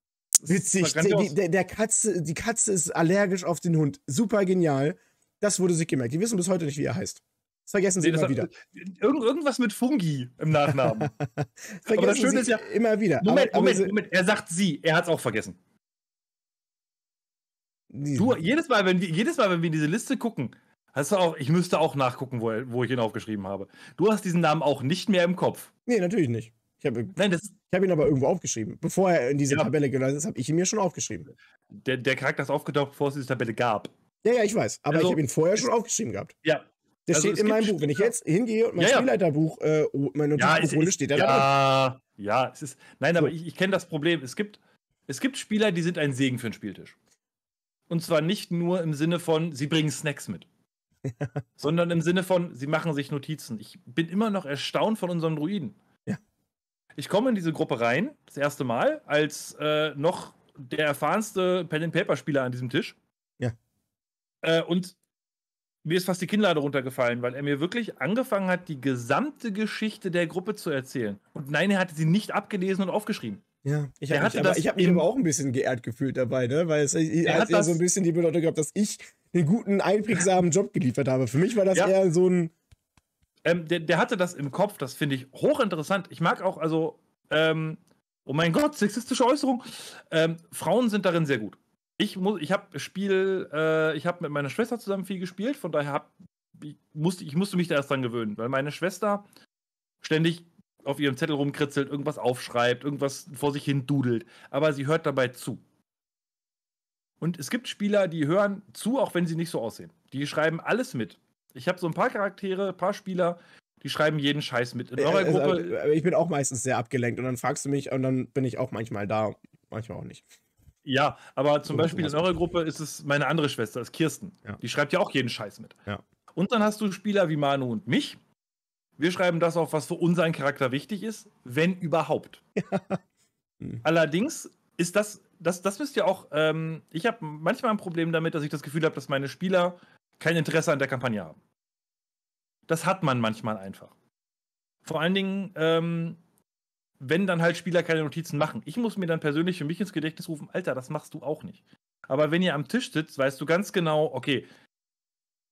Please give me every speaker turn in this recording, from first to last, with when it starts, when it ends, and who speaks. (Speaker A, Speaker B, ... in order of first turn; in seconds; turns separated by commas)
Speaker A: 0.4-1.4, Speaker B: 0.5-8.5, Speaker A: 8.0-11.1, Speaker B: 11.0-13.9, Speaker A: 11.9-12.7, Speaker A: 13.2-15.6, Speaker B: 17.9-18.4, Speaker A: 18.1-25.7, Speaker B: 25.9-27.2, Speaker A: 27.1-27.5, Speaker B: 27.7-31.3, Speaker A: 31.7-33.9, Speaker B: 34.2-36.3, Speaker A: 34.9-35.7, Speaker A: 36.4-38.1, Speaker B: 37.1-41.5, Speaker A: 38.8-39.1, Speaker A: 40.4-46.9, Speaker A: 47.9-50.5, Speaker B: 51.1-51.4, Speaker A: 51.6-55.8, Speaker A: 57.0-63.0, Speaker A: 64.4-65.0, Speaker A: 65.8-73.4, Speaker B: 73.6-82.5, Speaker A: 74.1-75.0, Speaker A: 77.2-77.8, Speaker A: 83.4-99.2, Speaker A: 100.0-105.6, Speaker A: 107.2-115.8, Speaker B: 115.0-120.2, Speaker A: 120.8-125.8, Speaker B: 121.7-122.4, Speaker A: 126.3-128.2, Speaker A: 129.0-132.4, Speaker B: 132.6-133.0, Speaker A: 133.8-141.4, Speaker A: 142.7-143.9, Speaker A: 144.8-146.2, Speaker A: 147.0-154.4